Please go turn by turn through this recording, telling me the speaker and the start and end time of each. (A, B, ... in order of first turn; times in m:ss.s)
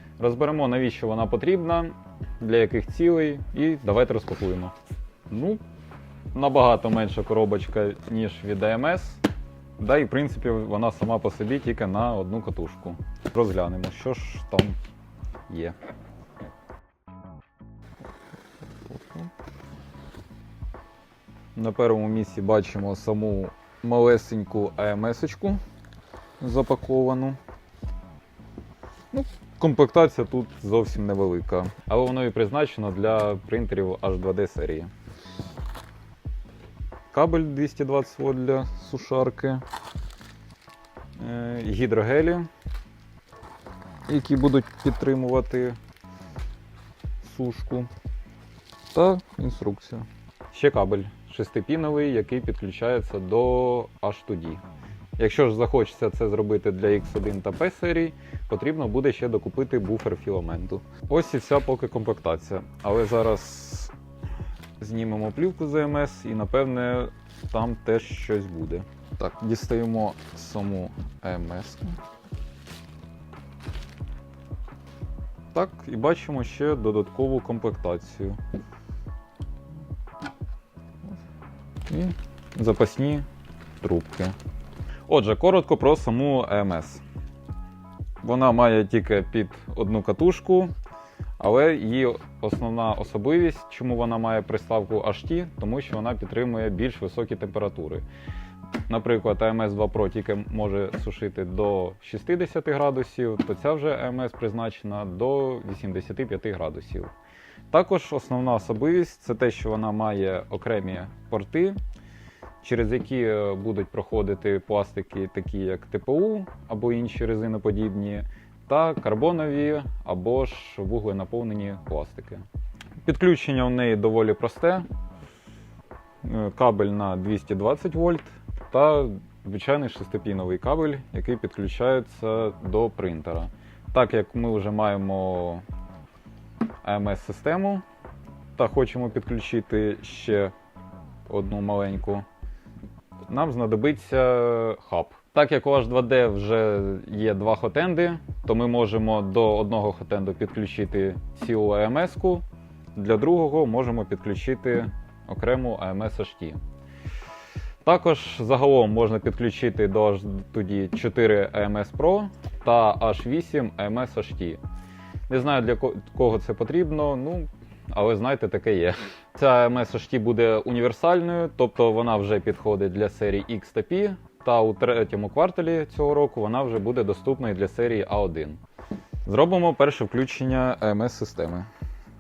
0:00.2-0:04.7 A
0:05.3-0:05.6 A
0:06.3-0:09.2 A
0:09.8-0:14.8 A
0:15.5-0:15.8 A
0:18.9-0:19.3 A
0:21.6-0:25.6 A
0:26.4-0:27.4 A
0:29.1-0:34.9 A
0:37.1-0:39.6 A
0:41.2-0:42.5 A
0:44.1-0:45.8 A
0:47.2-0:47.9 A
0:48.9-0:54.6 A
0:55.2-1:03.9 A
1:04.8-1:12.0 A
1:15.5-1:18.4 A
1:21.9-1:23.3 A
1:23.8-1:24.4 A
1:25.1-1:27.0 A
1:28.2-1:30.7 A
1:31.4-1:38.0 A
1:38.9-1:47.1 A
1:47.7-1:51.8 A
1:52.6-2:02.4 A
2:03.0-2:04.9 A
2:06.2-2:15.6 A
2:16.8-2:17.8 A
2:18.6-2:20.5 A
2:21.3-2:22.2 A
2:23.3-2:32.4 A
2:33.0-2:36.6 A
2:37.8-2:44.6 A
2:45.3-2:58.6 A
2:59.3-3:01.7 A